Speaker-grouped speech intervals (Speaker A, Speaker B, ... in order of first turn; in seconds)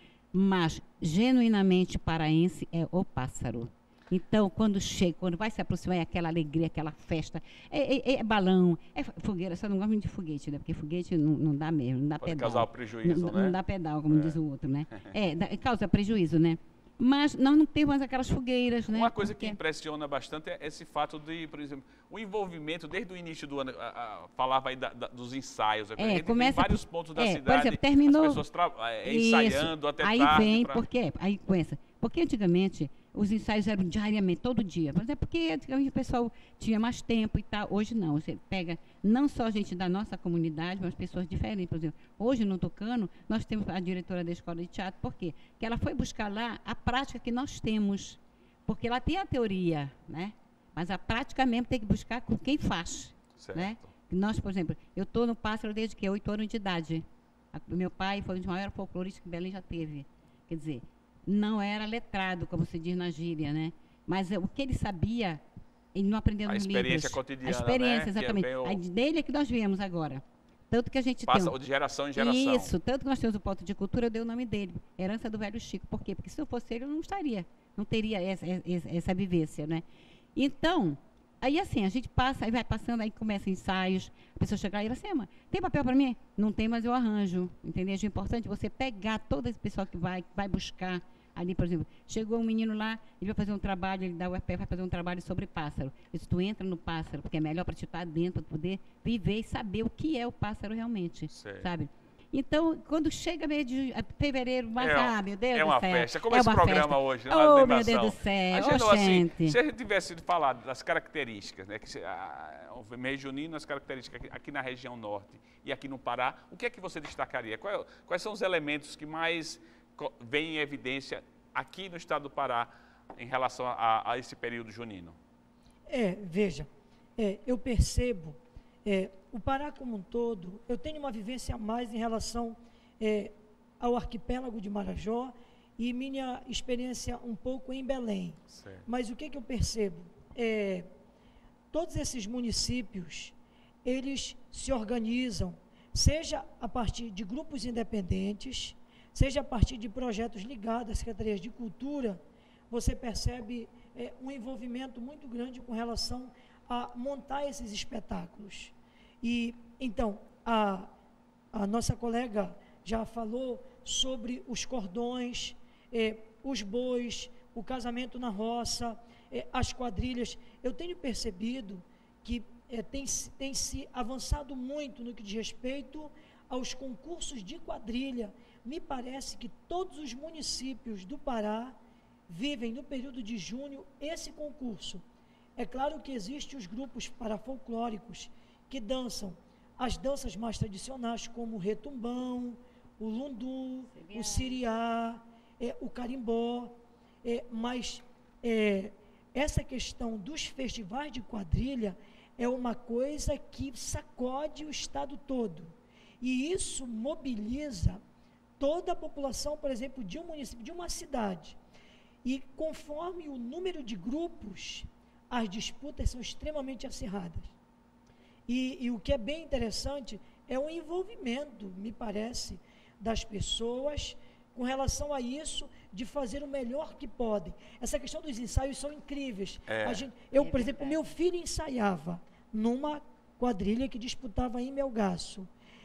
Speaker A: 0.3-19.6, 26.0-28.4, 29.0-65.4, 65.9-71.5, 72.1-79.8, 80.3-109.5, 193.9-194.6, 230.3-231.0
Speaker B: 12.2-13.6, 14.1-14.4, 18.9-30.8, 53.4-53.9, 66.5-68.8, 71.3-72.7, 101.3-101.7, 104.8-125.2, 138.5-138.8, 229.7-230.1
Speaker C: 125.9-140.9, 141.7-160.9, 161.5-181.8, 182.3-185.0, 185.6-208.0, 208.6-211.6, 212.2-217.5, 218.5-235.5